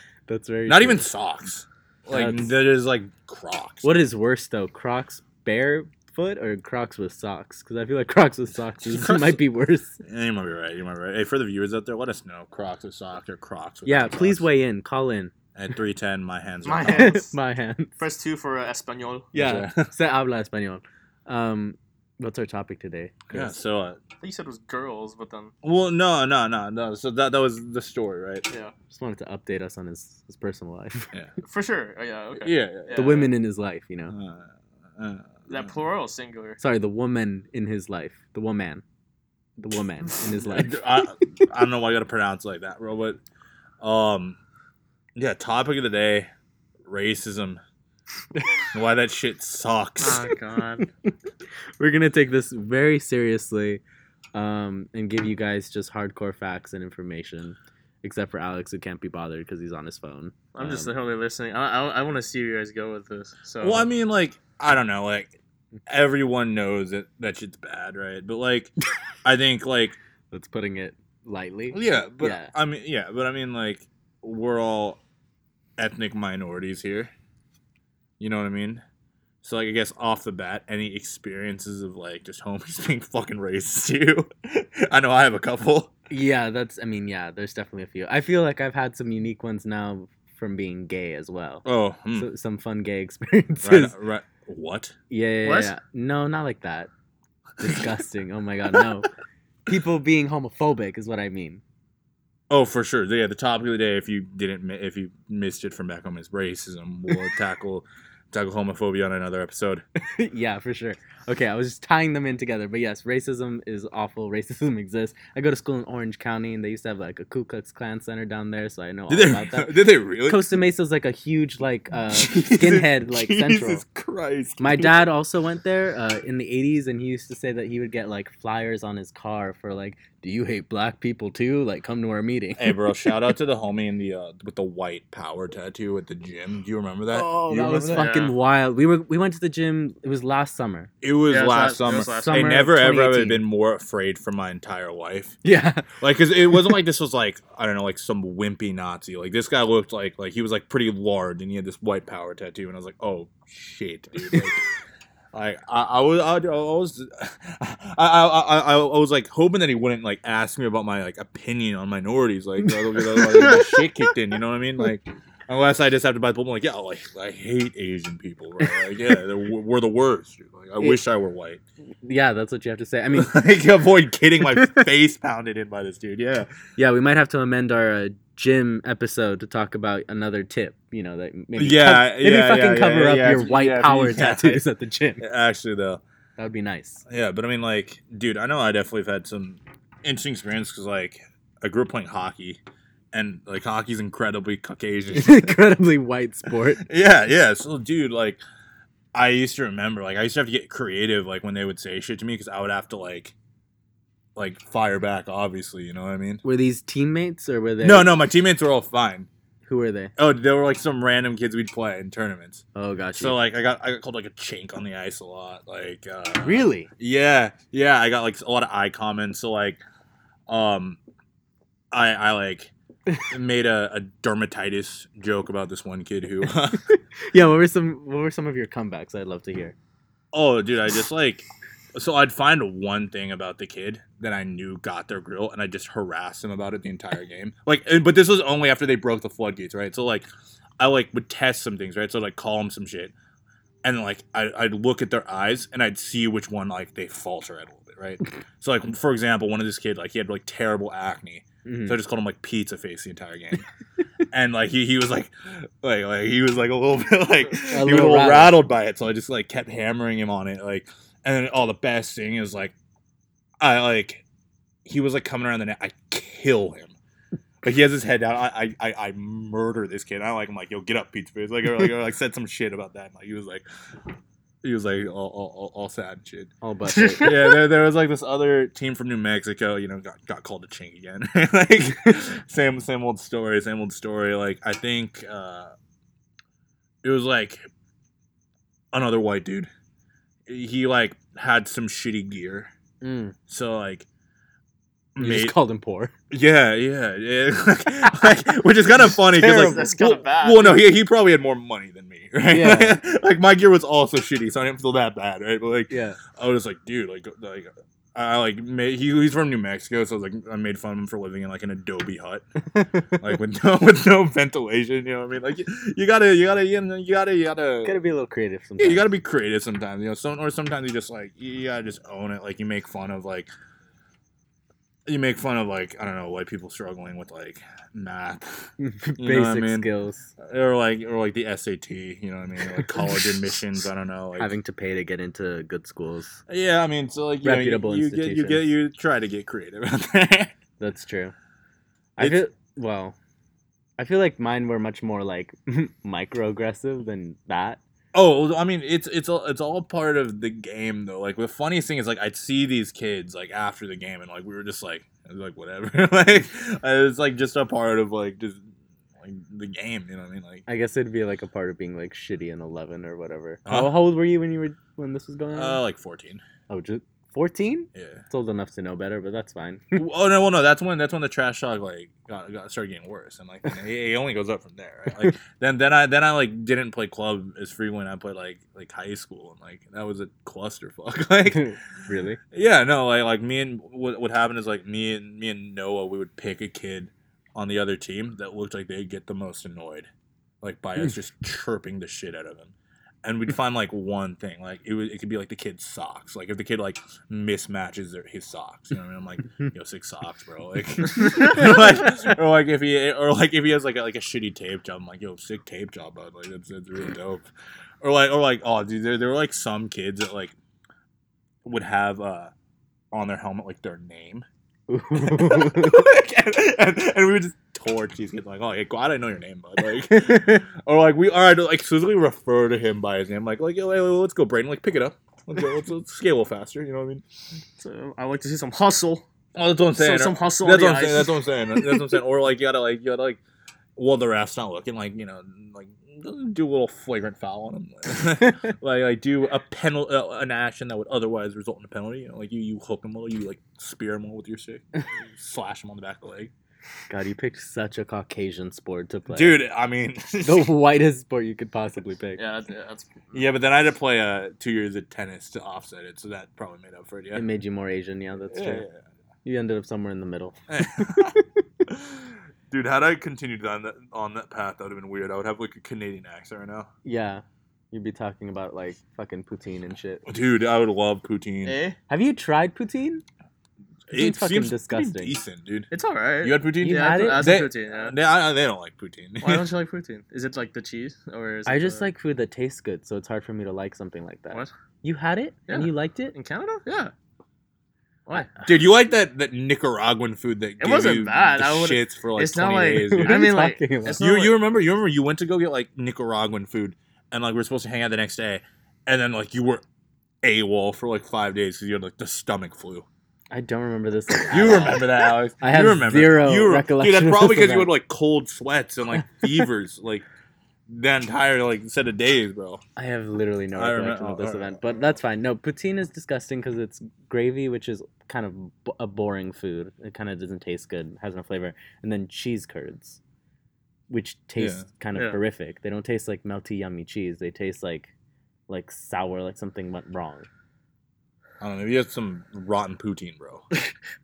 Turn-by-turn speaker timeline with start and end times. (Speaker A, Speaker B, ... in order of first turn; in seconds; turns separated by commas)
Speaker A: 0.3-1.1, Speaker B: 0.7-3.9, Speaker A: 2.1-2.5, Speaker A: 3.8-10.0, Speaker B: 8.8-9.4, Speaker B: 10.0-14.5, Speaker A: 13.9-15.3, Speaker B: 15.6-17.2, Speaker C: 16.6-17.4, Speaker A: 16.9-17.9, Speaker C: 18.0-19.3, Speaker A: 19.3-23.5, Speaker B: 19.4-19.9, Speaker B: 23.3-24.0, Speaker C: 24.2-25.5, Speaker B: 25.6-28.5, Speaker C: 28.5-28.7, Speaker A: 28.9-31.1, Speaker C: 31.4-33.3, Speaker B: 32.4-33.3, Speaker A: 33.0-34.1, Speaker B: 34.1-35.7, Speaker C: 35.5-36.6, Speaker A: 36.6-38.8, Speaker A: 39.6-41.0, Speaker B: 40.3-43.2, Speaker B: 43.8-44.4, Speaker B: 45.2-46.3, Speaker B: 46.9-47.6, Speaker B: 48.7-50.3, Speaker C: 50.0-50.9, Speaker A: 51.8-53.8, Speaker A: 54.3-60.9, Speaker C: 60.5-63.9, Speaker B: 63.6-65.3, Speaker B: 65.9-68.7, Speaker B: 69.2-70.0, Speaker A: 70.3-72.5, Speaker B: 71.7-75.0, Speaker B: 75.8-77.1, Speaker B: 78.2-78.8, Speaker B: 79.4-85.9, Speaker A: 86.1-94.0, Speaker B: 91.7-92.3, Speaker B: 93.6-95.0, Speaker A: 95.1-96.9, Speaker C: 95.4-95.8, Speaker A: 97.6-99.1, Speaker A: 99.7-101.6, Speaker B: 102.5-109.8, Speaker A: 110.1-123.8, Speaker B: 119.1-120.5, Speaker B: 122.1-125.1, Speaker A: 124.6-132.8, Speaker B: 132.6-138.1, Speaker A: 137.1-140.9, Speaker C: 137.9-138.3, Speaker B: 141.0-145.4, Speaker C: 141.3-142.5, Speaker A: 142.2-143.4, Speaker A: 145.4-145.9, Speaker B: 146.0-154.6, Speaker A: 146.5-146.8, Speaker B: 155.3-171.6, Speaker A: 172.0-173.4, Speaker B: 173.1-176.5, Speaker A: 174.6-174.9, Speaker A: 176.8-185.2, Speaker B: 181.6-184.7, Speaker B: 185.2-186.0, Speaker A: 186.4-187.0, Speaker B: 187.1-192.6, Speaker B: 193.1-195.7, Speaker A: 195.1-196.8, Speaker B: 196.8-198.4, Speaker B: 199.1-203.3, Speaker B: 204.4-206.4, Speaker A: 206.4-208.2, Speaker B: 207.8-209.3, Speaker A: 209.7-210.1, Speaker B: 210.2-212.6, Speaker A: 212.8-213.4, Speaker B: 213.2-219.8, Speaker A: 216.4-216.9, Speaker B: 220.5-221.0, Speaker B: 221.9-222.7, Speaker B: 223.3-226.9, Speaker A: 226.9-229.8, Speaker B: 230.3-240.3, Speaker B: 240.8-243.1, Speaker B: 243.8-253.7, Speaker A: 251.7-252.0, Speaker B: 254.3-262.7, Speaker A: 257.7-258.6, Speaker B: 263.6-264.2, Speaker B: 264.9-266.9, Speaker B: 267.6-273.6, Speaker B: 274.6-276.5, Speaker A: 276.6-277.4, Speaker C: 276.9-277.4, Speaker B: 277.2-285.7, Speaker B: 287.0-287.7, Speaker B: 288.9-289.7, Speaker B: 290.5-292.7, Speaker A: 293.0-293.4, Speaker B: 293.5-294.1, Speaker B: 295.1-295.6, Speaker A: 295.2-296.1, Speaker B: 296.3-312.5, Speaker C: 299.1-300.9, Speaker A: 302.5-303.0, Speaker A: 305.9-306.2, Speaker B: 313.1-318.0, Speaker A: 317.8-319.1, Speaker B: 318.8-323.5, Speaker B: 325.1-328.4, Speaker A: 328.8-330.3, Speaker B: 329.2-334.5, Speaker A: 332.8-333.3, Speaker A: 334.4-336.4, Speaker B: 336.5-340.6, Speaker A: 337.4-338.7, Speaker A: 340.8-341.3, Speaker A: 342.2-343.2, Speaker A: 344.0-347.8, Speaker B: 348.1-358.6, Speaker B: 359.2-360.6, Speaker A: 360.7-365.8, Speaker B: 363.7-364.0, Speaker B: 365.5-366.4, Speaker A: 366.7-370.0, Speaker B: 367.9-368.2, Speaker B: 370.0-381.8, Speaker A: 381.5-382.4, Speaker B: 382.5-390.1, Speaker B: 390.6-392.7, Speaker B: 393.2-407.5, Speaker A: 401.3-401.9, Speaker B: 408.0-410.5, Speaker B: 411.6-412.5, Speaker B: 413.1-414.5, Speaker A: 414.9-416.1, Speaker B: 415.1-427.2, Speaker A: 420.1-420.6, Speaker C: 427.8-429.2, Speaker B: 429.6-433.4, Speaker C: 429.9-431.4, Speaker B: 434.0-446.5, Speaker A: 447.1-449.6, Speaker B: 449.3-450.7, Speaker A: 450.4-452.4, Speaker C: 452.4-453.4, Speaker B: 453.3-457.4, Speaker A: 457.3-458.9, Speaker B: 458.5-459.0, Speaker A: 459.4-461.5, Speaker B: 460.7-466.9, Speaker A: 467.0-470.2, Speaker B: 470.2-471.8, Speaker C: 471.6-472.0, Speaker A: 472.1-473.2, Speaker B: 474.1-475.9, Speaker A: 474.1-475.4, Speaker C: 475.9-478.1, Speaker B: 476.4-479.7, Speaker A: 476.8-477.6, Speaker C: 479.4-482.1, Speaker A: 481.7-486.4, Speaker C: 485.7-487.1, Speaker C: 488.3-488.5, Speaker B: 488.6-493.5, Speaker C: 490.8-494.6, Speaker A: 493.0-494.2, Speaker B: 494.2-499.8, Speaker B: 500.4-503.1, Speaker A: 503.5-507.9, Speaker B: 504.5-510.3, Speaker B: 510.9-512.8, Speaker A: 513.0-523.2, Speaker B: 513.8-514.8, Speaker A: 524.1-528.1, Speaker B: 524.6-524.9, Speaker A: 528.7-530.5, Speaker B: 531.6-533.6